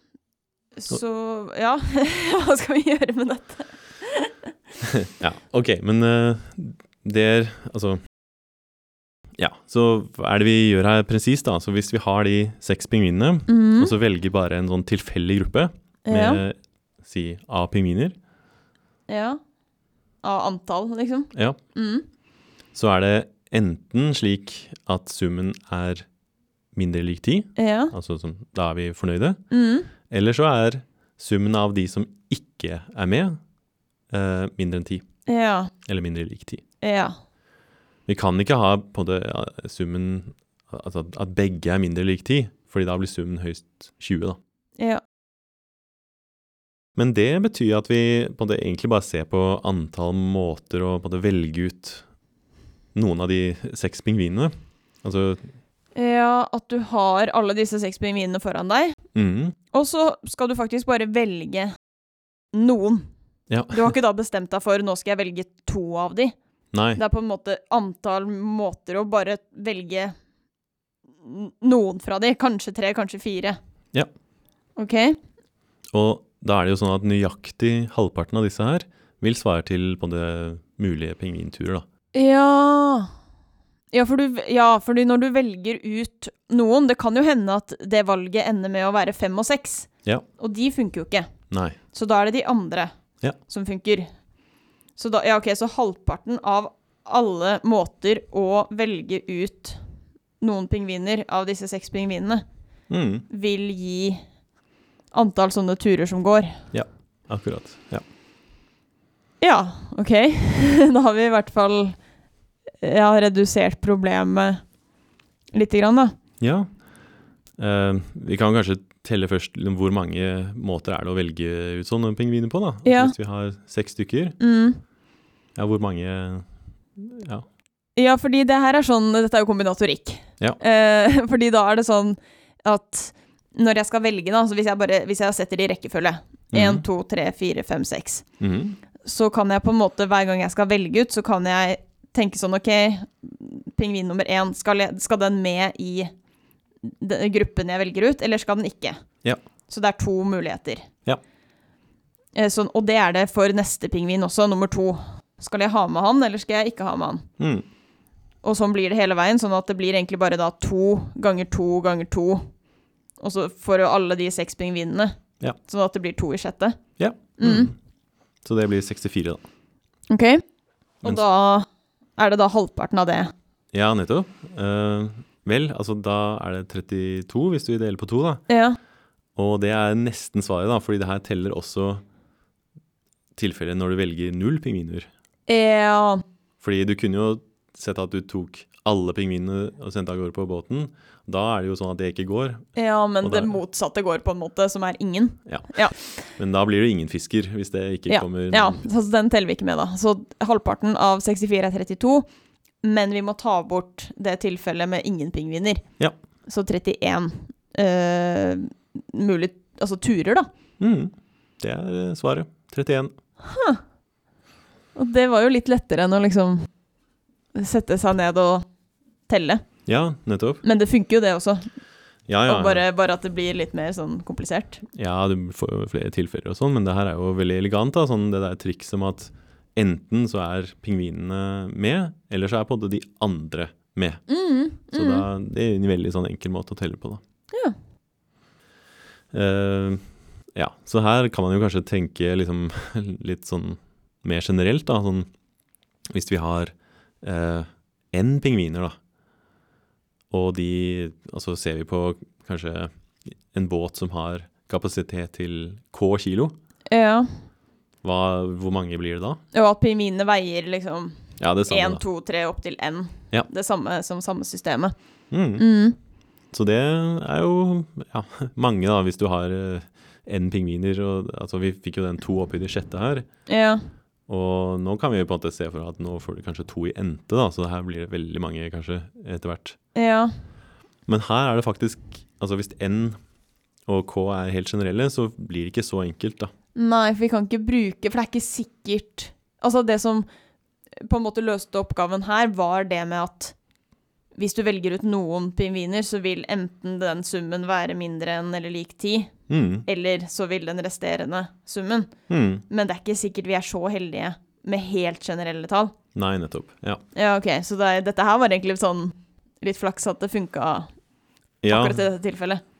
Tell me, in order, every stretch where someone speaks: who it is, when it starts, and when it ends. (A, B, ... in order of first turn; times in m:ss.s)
0:00.8-0:04.3 A
0:05.0-0:08.0 B
0:09.4-0:18.1 B
0:13.5-0:13.9 A
0:16.1-0:16.4 A
0:19.1-0:19.4 A
0:20.2-0:22.0 A
0:22.7-0:26.0 B
0:26.7-0:29.4 B
0:27.6-0:27.9 A
0:29.5-0:29.9 A
0:30.1-0:33.4 B
0:34.1-0:35.0 B
0:35.3-0:35.7 A
0:35.8-0:36.6 B
0:36.8-0:37.1 A
0:38.1-0:44.4 B
0:47.0-0:52.0 B
0:52.9-0:54.5 B
0:55.0-0:55.4 B
0:55.9-0:59.0 A
0:59.1-0:59.6 B
0:59.7-1:01.7 A
1:02.5-1:03.0 A
1:03.5-1:03.9 B
1:03.7-1:06.3 A
1:06.7-1:07.0 B
1:07.0-1:10.1 A
1:11.2-1:13.6 A
1:14.8-1:15.2 A
1:15.9-1:21.8 B
1:22.1-1:23.1 A
1:23.9-1:31.3 A
1:31.5-1:31.8 B
1:31.9-1:32.9 A
1:33.4-1:34.1 A
1:35.0-1:39.8 A
1:40.4-1:42.4 A
1:42.9-1:43.2 B
1:43.3-1:44.2 A
1:45.1-1:46.6 A
1:46.7-1:48.0 B
1:49.4-1:52.0 A
1:52.8-1:54.6 A
1:55.5-1:56.1 A
1:56.4-1:56.7 B
1:57.6-2:04.4 B
2:02.8-2:03.1 A
2:04.4-2:04.8 A
2:05.6-2:07.4 B
2:08.0-2:18.2 A
2:16.5-2:16.8 B
2:18.4-2:18.8 B
2:19.0-2:26.1 A
2:26.8-2:29.0 A
2:29.7-2:30.9 A
2:32.4-2:37.2 A
2:37.4-2:37.6 B
2:38.4-2:42.4 A
2:43.2-2:45.1 A
2:45.6-2:46.8 A
2:47.0-2:47.7 B
2:47.4-2:47.7 A
2:48.4-2:49.4 B
2:50.1-2:50.4 A
2:51.0-2:51.6 A
2:52.2-2:53.3 A
2:53.7-2:58.4 B
2:58.5-2:58.8 A
2:59.4-3:02.0 B
3:03.4-3:05.1 B
3:05.5-3:06.2 A
3:06.6-3:12.7 B
3:12.7-3:16.1 A
3:13.2-3:13.5 B
3:15.4-3:18.8 B
3:18.1-3:22.2 A
3:22.8-3:25.8 A
3:26.5-3:30.5 A
3:30.8-3:33.1 B
3:33.4-3:33.8 A
3:35.0-3:36.6 A
3:37.5-3:38.6 A
3:39.3-3:39.6 A
3:39.8-3:40.6 B
3:40.6-3:41.7 A
3:42.3-3:42.8 B
3:42.4-3:44.8 A
3:44.9-3:54.2 B
3:54.3-3:55.2 A
3:54.9-3:57.2 B
3:59.3-4:05.3 B
4:06.1-4:08.9 B
4:10.3-4:12.9 B
4:13.5-4:16.6 B
4:16.9-4:17.3 A
4:18.0-4:19.4 B
4:19.5-4:24.9 A
4:21.4-4:22.0 B
4:25.3-4:25.6 B
4:25.6-4:26.0 A
4:26.5-4:33.2 B
4:33.5-4:33.8 A
4:34.3-4:39.8 B
4:39.9-4:40.3 A
4:41.1-4:43.2 B
4:43.9-4:46.5 B
4:46.7-4:50.2 A
4:51.0-4:53.5 A
4:54.3-4:59.3 A
4:59.5-4:59.8 B
4:59.8-5:02.1 A
5:02.3-5:02.6 B
5:02.7-5:05.9 A
5:06.1-5:07.0 B
5:07.1-5:10.9 A
5:11.6-5:12.0 B
5:11.7-5:12.6 A